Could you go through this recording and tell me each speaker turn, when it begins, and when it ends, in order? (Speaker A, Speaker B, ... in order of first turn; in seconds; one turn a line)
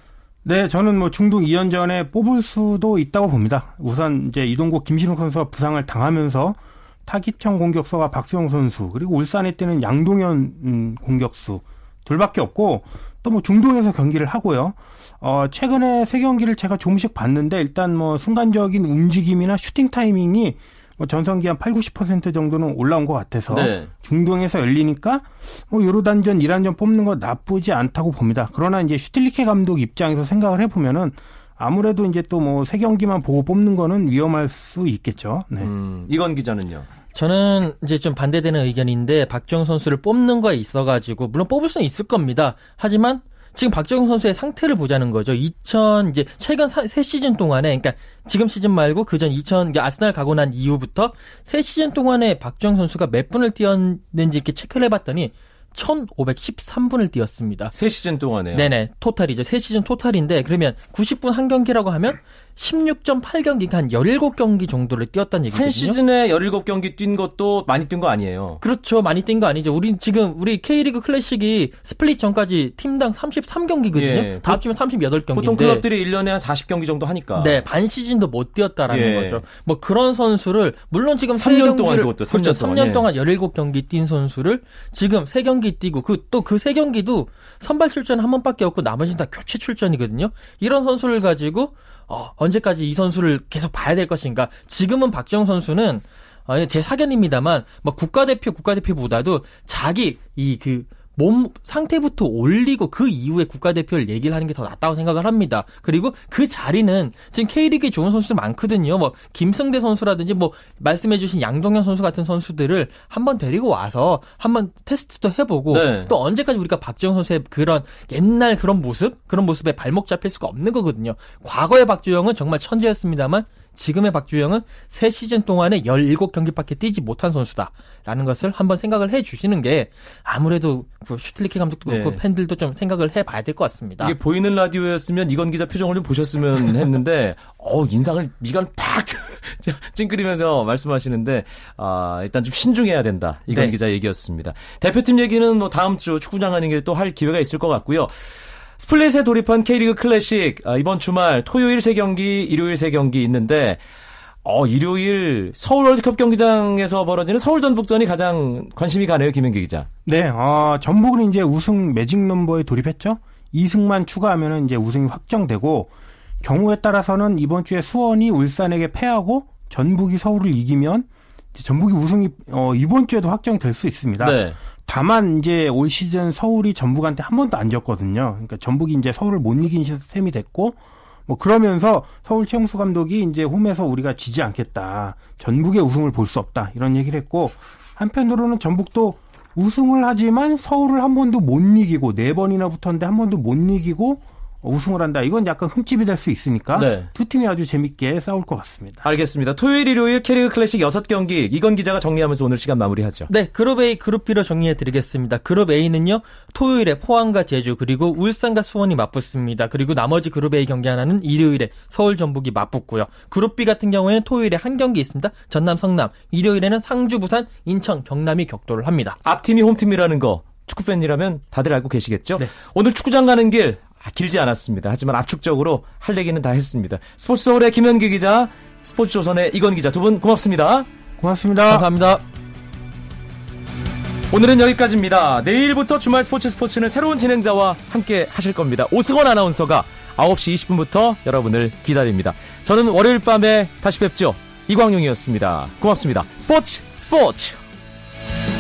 Speaker A: 0.4-35.7
Speaker B: 23.5-23.9
Speaker B: 35.6-36.9
Speaker C: 37.1-57.7
Speaker B: 57.7-58.7
Speaker C: 58.5-66.0
Speaker B: 65.5-68.6
Speaker C: 68.6-75.8
Speaker B: 73.9-74.6
Speaker B: 75.3-77.6
Speaker C: 77.4-134.2
Speaker B: 78.9-79.4
Speaker B: 81.3-83.1
Speaker B: 115.7-116.1
Speaker B: 131.9-132.2
Speaker B: 134.0-148.1
Speaker C: 143.5-143.8
Speaker B: 148.8-153.8
Speaker B: 154.4-159.9
Speaker A: 160.1-165.9
Speaker A: 166.4-199.1
Speaker B: 174.2-174.6
Speaker B: 196.8-197.1
Speaker B: 199.0-203.3
Speaker C: 203.3-219.2
Speaker B: 219.2-230.9
Speaker A: 231.2-231.9
Speaker C: 231.7-232.2
Speaker B: 234.3-247.6